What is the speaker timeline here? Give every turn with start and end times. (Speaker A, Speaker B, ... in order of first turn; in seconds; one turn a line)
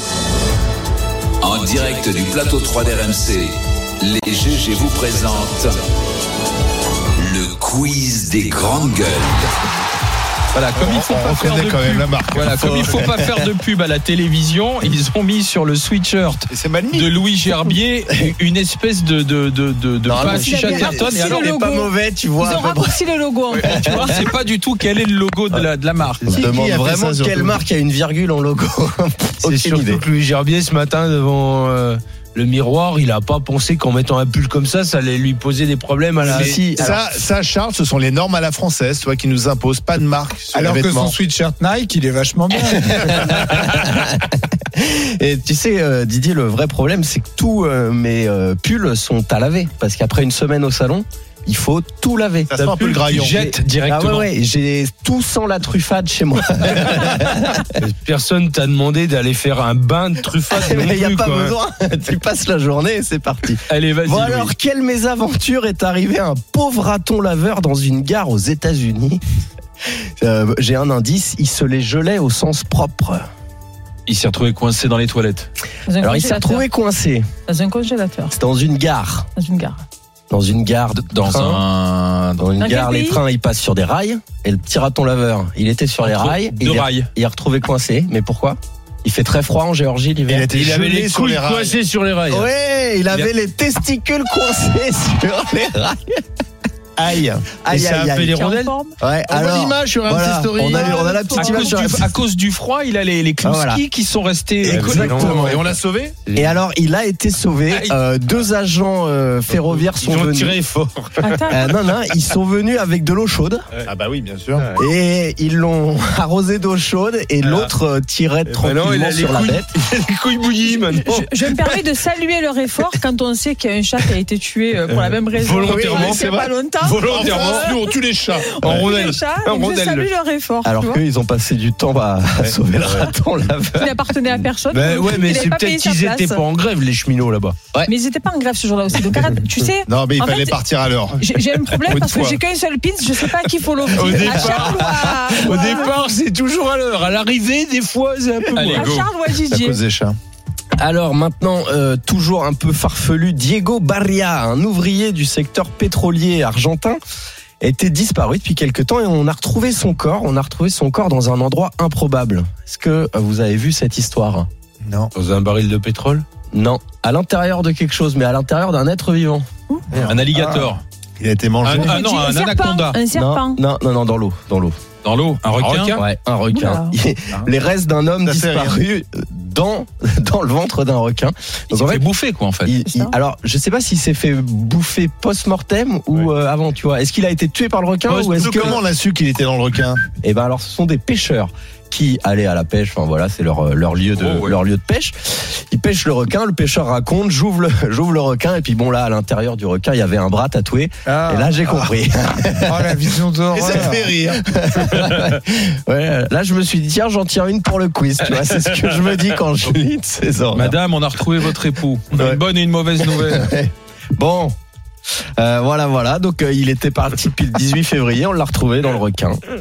Speaker A: 1.4-5.8
Speaker A: 7.2-9.5
Speaker B: 10.6-21.2
Speaker C: 10.7-12.8
Speaker D: 12.6-13.5
Speaker C: 16.5-17.2
Speaker E: 20.0-20.5
Speaker C: 20.1-20.4
Speaker D: 20.1-24.3
Speaker F: 20.2-24.2
Speaker E: 21.2-21.5
Speaker B: 24.2-26.3
Speaker E: 26.2-26.5
Speaker C: 26.3-27.6
Speaker D: 26.3-30.1
Speaker E: 29.4-36.6
Speaker C: 36.2-41.2
Speaker D: 36.2-37.0
Speaker G: 40.5-43.3
Speaker D: 42.7-52.5
Speaker C: 52.5-53.5
Speaker E: 52.6-54.3
Speaker D: 53.3-57.7
Speaker E: 57.8-61.5
Speaker D: 60.5-69.2
Speaker E: 63.7-64.5
Speaker D: 70.2-73.2
Speaker E: 74.1-74.4
Speaker B: 74.3-75.2
Speaker F: 75.9-76.7
Speaker D: 76.0-77.3
Speaker F: 77.5-78.3
Speaker D: 78.3-79.3
Speaker F: 79.4-79.8
Speaker D: 80.3-81.6
Speaker B: 81.2-82.3
Speaker D: 82.4-90.5
Speaker F: 82.6-83.2
Speaker E: 86.1-87.0
Speaker C: 90.3-91.8
Speaker E: 90.5-92.5
Speaker D: 92.3-96.2
Speaker C: 97.0-98.3
Speaker D: 97.6-98.4
Speaker E: 97.7-98.7
Speaker F: 98.3-99.0
Speaker D: 99.0-102.2
Speaker C: 99.2-101.0
Speaker F: 100.6-101.8
Speaker B: 101.4-105.1
Speaker E: 101.6-102.7
Speaker D: 103.4-103.8
Speaker E: 104.6-106.5
Speaker D: 104.6-105.7
Speaker C: 104.7-106.2
Speaker D: 106.3-110.6
Speaker E: 109.5-111.7
Speaker F: 111.2-111.6
Speaker D: 111.4-113.6
Speaker C: 113.9-114.7
Speaker D: 114.8-119.7
Speaker E: 117.4-117.7
Speaker E: 118.5-121.8
Speaker F: 120.7-131.0
Speaker E: 124.9-126.3
Speaker C: 125.7-126.4
Speaker E: 126.8-127.8
Speaker C: 127.0-128.8
Speaker E: 128.6-130.1
Speaker D: 130.6-134.4
Speaker F: 133.7-136.4
Speaker E: 134.7-137.8
Speaker F: 137.8-140.6
Speaker C: 139.9-142.4
Speaker F: 141.2-146.0
Speaker E: 143.9-149.0
Speaker C: 144.2-144.7
Speaker B: 148.6-149.0
Speaker F: 148.7-149.8
Speaker C: 149.5-150.2
Speaker D: 150.8-157.0
Speaker D: 157.6-164.5
Speaker C: 164.8-165.1
Speaker E: 165.2-166.2
Speaker D: 166.5-169.5
Speaker C: 169.9-170.3
Speaker E: 170.0-170.8
Speaker B: 170.1-170.8
Speaker C: 171.2-172.0
Speaker B: 171.7-173.0
Speaker F: 171.8-173.6
Speaker D: 173.1-174.8
Speaker B: 175.0-176.0
Speaker E: 175.4-176.0
Speaker D: 176.0-182.1
Speaker F: 176.5-176.9
Speaker C: 178.2-178.8
Speaker B: 181.8-182.6
Speaker D: 182.6-188.8
Speaker F: 182.8-183.2
Speaker C: 188.1-190.0
Speaker E: 188.4-188.8
Speaker D: 190.2-210.8
Speaker G: 201.1-201.7
Speaker G: 202.7-204.1
Speaker C: 203.6-204.9
Speaker B: 210.6-213.5
Speaker D: 212.2-212.4
Speaker D: 213.0-214.5
Speaker D: 215.4-219.4